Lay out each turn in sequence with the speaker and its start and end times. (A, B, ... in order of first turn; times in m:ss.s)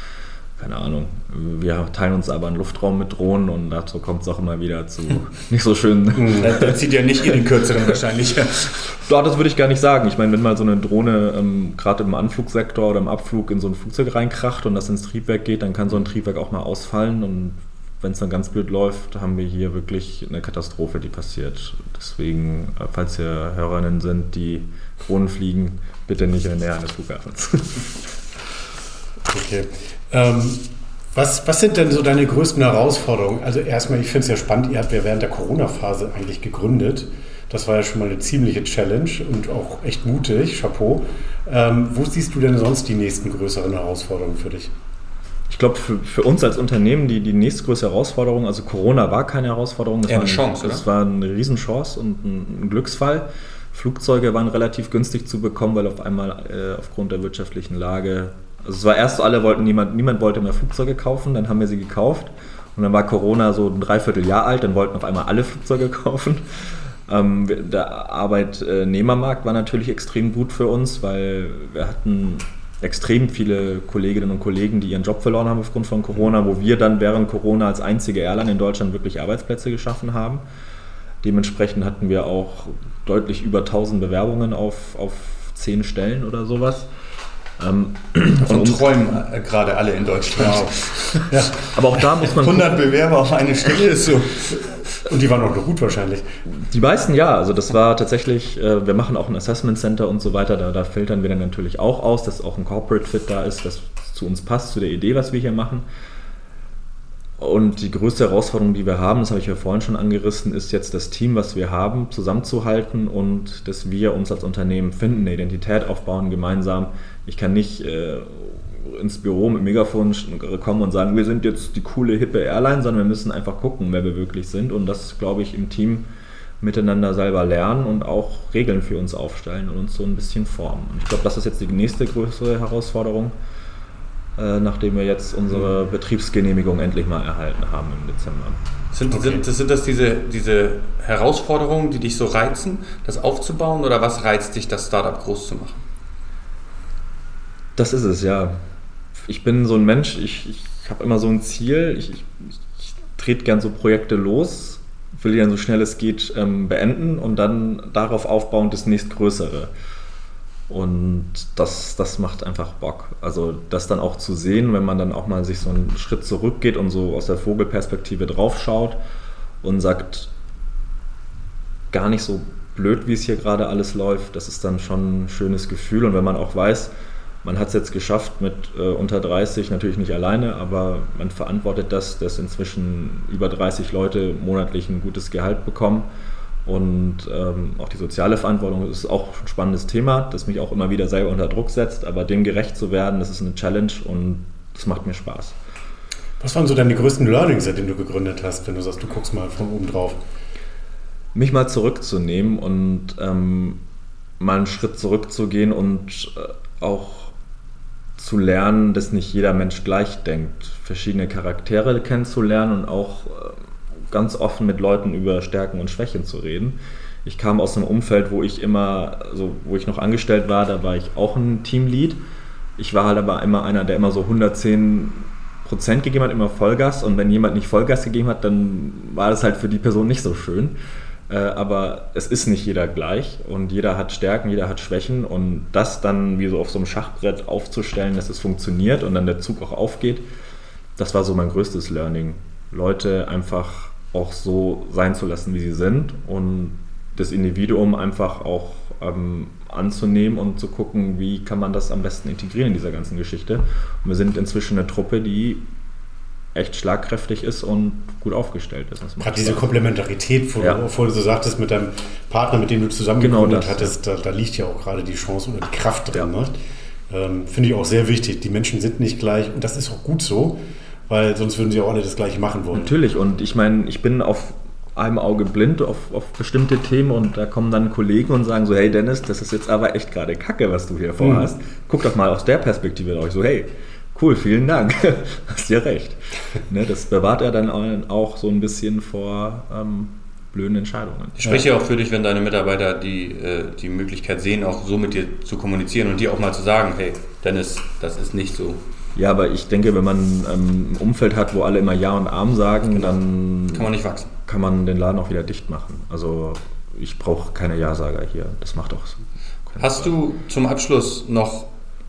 0:00.6-0:06.8 A
0:06.2-0:06.5 B
0:06.4-0:08.7 C
0:07.3-0:08.0 A
0:08.9-0:28.1 A
0:29.3-0:44.7 B
0:45.5-1:20.4 A
0:50.1-0:50.8 C
1:21.2-1:26.9 A
1:27.6-1:28.9 A
1:28.4-1:31.3 C
1:30.4-1:30.7 B
1:31.3-1:31.7 B
1:31.6-1:32.8 A
1:32.2-1:34.7 C
1:34.5-1:36.3 B
1:36.5-1:45.9 A
1:47.4-2:06.1 A
2:06.6-2:13.4 A
2:14.4-2:18.6 A
2:18.9-2:25.8 C
2:19.1-2:19.4 B
2:27.8-2:28.6 A
2:29.2-2:39.7 A
2:40.7-2:49.0 A
2:49.6-2:50.3 A
2:51.9-2:56.9 A
2:57.4-3:06.1 A
3:06.7-3:15.6 A
3:16.4-3:20.2 B
3:21.4-3:23.8 A
3:24.4-3:27.3 A
3:28.2-3:33.6 A
3:34.1-3:42.2 A
3:42.8-3:50.8 A
3:51.3-4:00.3 A
4:01.0-4:15.7 A
4:16.6-4:19.6 A
4:19.2-4:26.6 B
4:23.2-4:23.9 A
4:27.1-4:32.9 B
4:32.7-4:51.6 A
4:41.2-4:41.5 B
4:51.4-4:58.8 C
4:59.2-5:03.9 A
5:03.7-5:04.3 C
5:04.5-5:10.1 A
5:09.8-5:11.7 C